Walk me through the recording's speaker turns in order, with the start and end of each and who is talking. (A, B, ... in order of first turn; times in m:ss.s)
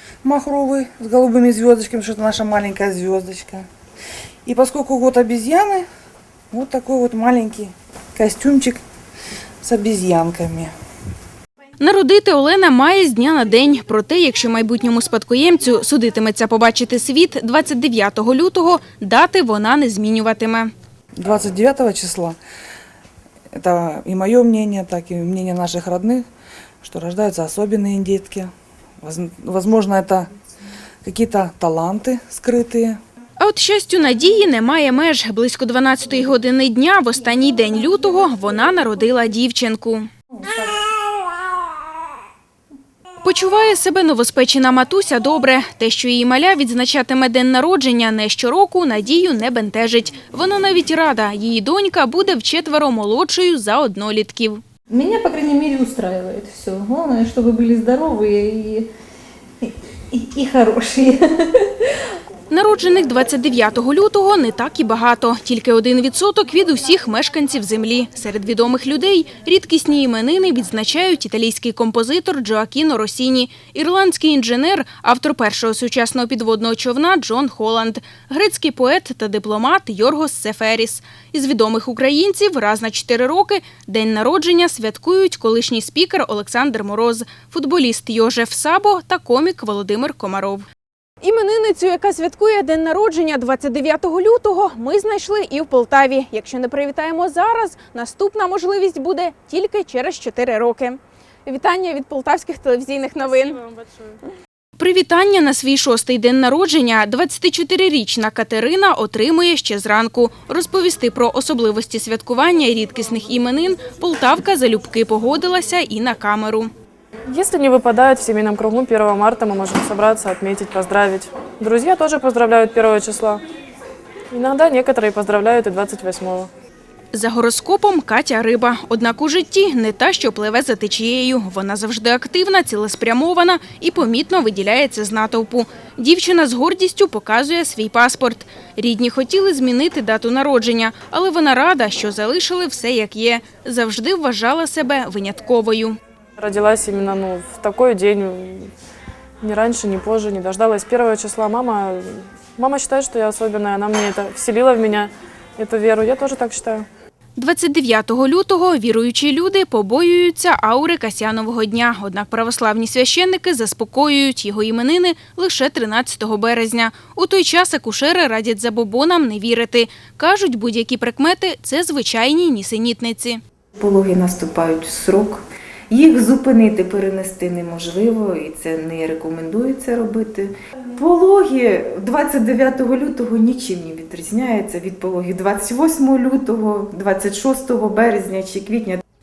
0:00.2-0:03.7 A
0:04.5-0:05.9 A
0:06.5-0:08.8 A
0:09.6-0:10.7 A
0:11.8-0:20.7 B
0:21.2-0:22.4 A
0:23.5-0:26.2 A
0:26.8-0:28.5 A
0:29.0-0:30.3 A
0:31.0-0:33.0 A
0:33.4-0:40.1 B
0:43.2-0:54.6 B
0:55.0-0:58.8 C
1:00.2-1:01.0 C
1:02.5-1:30.6 B
1:31.2-1:43.6 B
1:43.2-1:44.2 D
1:44.8-1:56.7 B
1:57.3-2:03.4 D
2:04.3-2:06.5 D
2:07.1-2:26.0 B
2:26.4-2:28.7 D
2:29.4-2:36.9 D
2:37.4-2:53.4 B
2:53.8-3:09.0 E